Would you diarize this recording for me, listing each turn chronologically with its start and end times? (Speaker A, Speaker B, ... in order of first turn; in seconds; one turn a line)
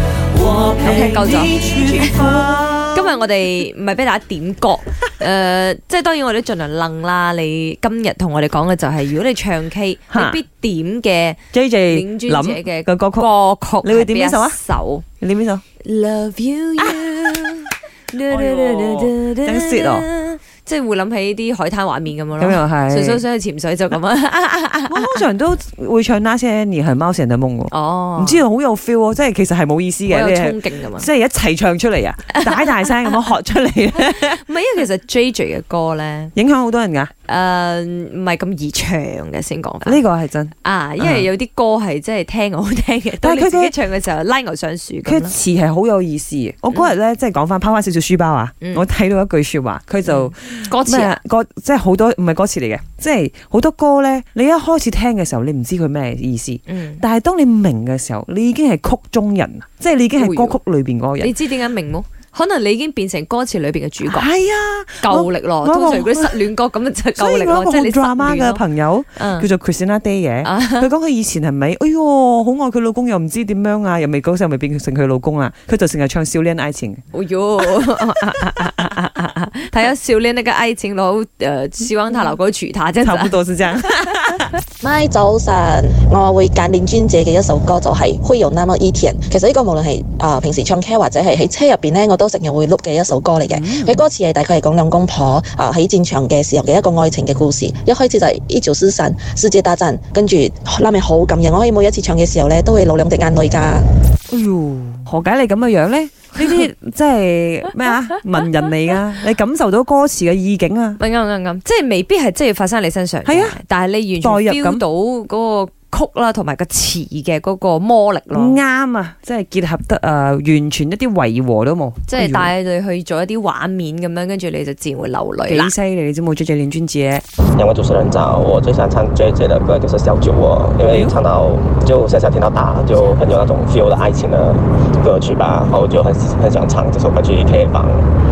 Speaker A: 0.3-2.5
Speaker B: 0.8-15.0
Speaker C: 0.9-3.0
Speaker C: 10.1-10.4
Speaker C: 11.5-13.3
Speaker C: 13.8-14.6
Speaker C: 15.2-15.6
Speaker B: 15.8-25.2
Speaker C: 18.3-20.1
Speaker C: 22.4-23.2
Speaker C: 24.9-34.4
Speaker B: 27.7-28.4
Speaker B: 30.1-31.1
Speaker B: 32.3-32.9
Speaker B: 34.0-36.3
Speaker C: 36.3-37.1
Speaker B: 37.2-40.0
Speaker C: 39.8-41.3
Speaker B: 40.5-45.4
Speaker C: 43.2-43.7
Speaker C: 45.0-61.3
Speaker B: 50.1-51.2
Speaker B: 56.7-57.0
Speaker B: 60.2-60.6
Speaker B: 61.2-64.3
Speaker C: 64.0-66.4
Speaker B: 65.0-68.6
Speaker C: 67.2-77.0
Speaker B: 69.2-69.5
Speaker B: 70.4-70.9
Speaker B: 77.1-83.4
Speaker C: 83.0-84.6
Speaker D: 84.8-103.9
Speaker C: 93.4-94.0
Speaker C: 104.3-111.0
Speaker B: 111.0-118.6
Speaker C: 113.3-113.6
Speaker C: 114.2-114.8
Speaker C: 118.3-122.5
Speaker B: 122.1-125.7
Speaker C: 125.5-127.2
Speaker E: 127.5-138.1